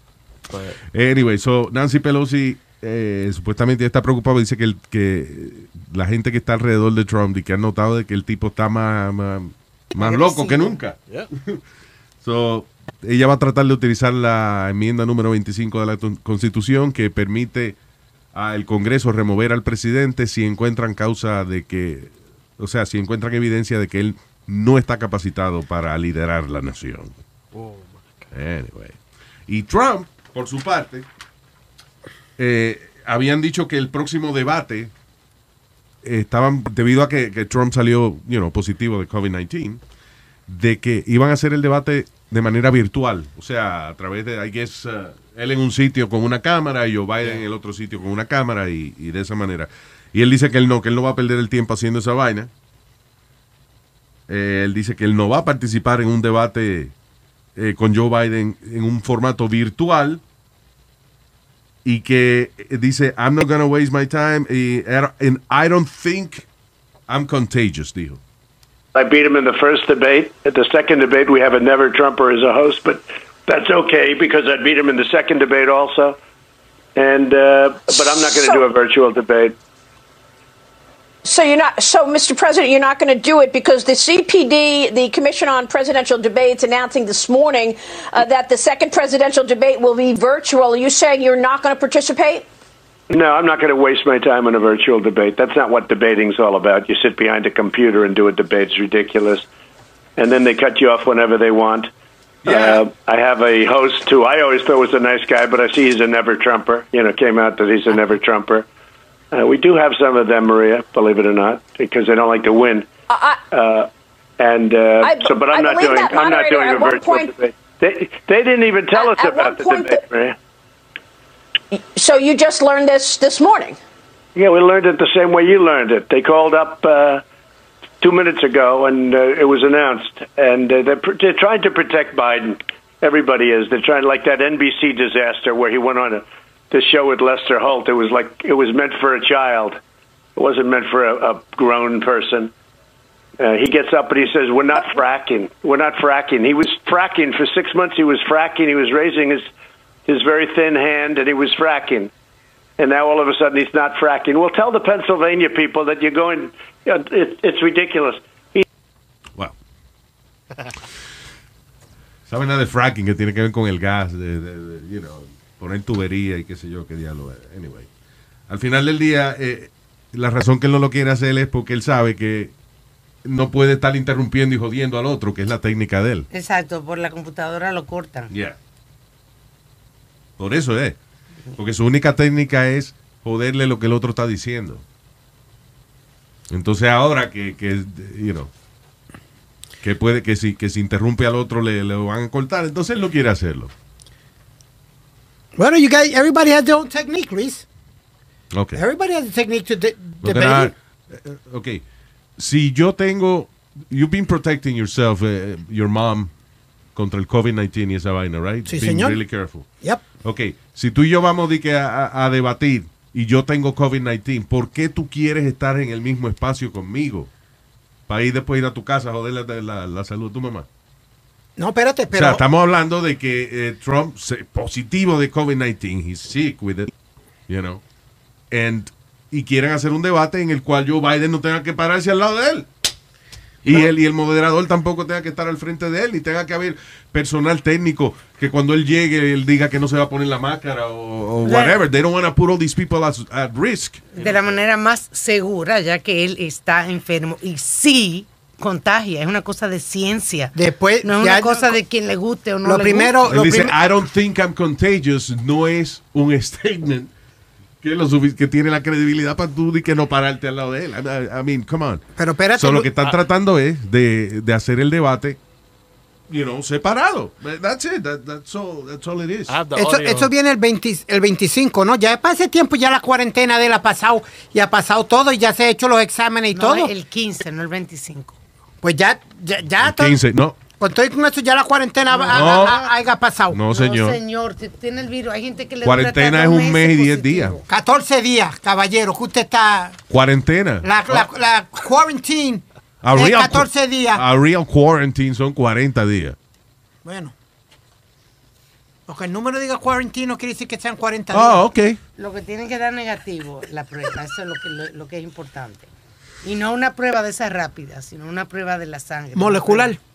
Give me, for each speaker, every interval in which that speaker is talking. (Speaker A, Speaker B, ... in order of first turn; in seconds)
Speaker A: 0.5-0.8, 27.5-28.3, 47.2-47.4, 269.5-270.3
Speaker B: 0.9-11.6, 12.2-17.8, 18.3-27.1, 28.3-31.1, 32.4-34.9, 36.0-39.8, 40.5-52.5, 54.3-56.9, 57.5-60.2, 61.8-66.5, 67.1-68.2, 102.4-102.8, 162.3-167.9, 168.5-172.5, 173.2-176.3, 178.3-178.6, 180.4-181.0, 181.6-184.8, 186.5-188.5, 189.8-193.7, 198.5-198.8, 200.2-201.8, 202.4-206.3, 206.9-209.7, 210.2-217.3, 218.1-220.7, 222.1-226.9, 227.5-227.8, 228.5-232.7, 233.6-244.1, 253.2-257.1, 257.8-265.4, 266.3-269.6, 279.8-280.6, 282.3-282.8, 283.5-284.2, 285.8-287.6, 290.1-291.3, 293.0-296.4, 301.3-302.0
Speaker C: 10.0-10.7, 176.3-178.3, 241.4-241.8, 244.2-253.1, 276.5-278.4, 282.1-282.9, 283.7-287.6, 302.2-305.9, 306.4-309.9
Speaker D: 68.9-76.2, 76.9-79.6, 93.1-99.5, 100.2-101.9, 102.4-108.7, 109.3-112.9, 113.5-120.3, 124.3-127.2, 128.0-139.8, 140.3-142.5, 143.4-149.5, 150.1-152.1, 152.8-158.7
Speaker E: 77.9-78.6, 81.2-92.5, 113.1-113.4, 115.0-117.3, 118.9-120.0, 121.7-123.8
Speaker F: 195.6-197.7, 198.7-200.7, 208.7-209.2, 221.6-222.4, 250.5-251.8, 252.6-253.8, 262.2-262.9, 269.7-276.9, 278.8-280.2, 280.7-283.6, 287.7-290.0, 290.8-294.2, 297.0-297.3, 299.1-301.6, 309.3-310.0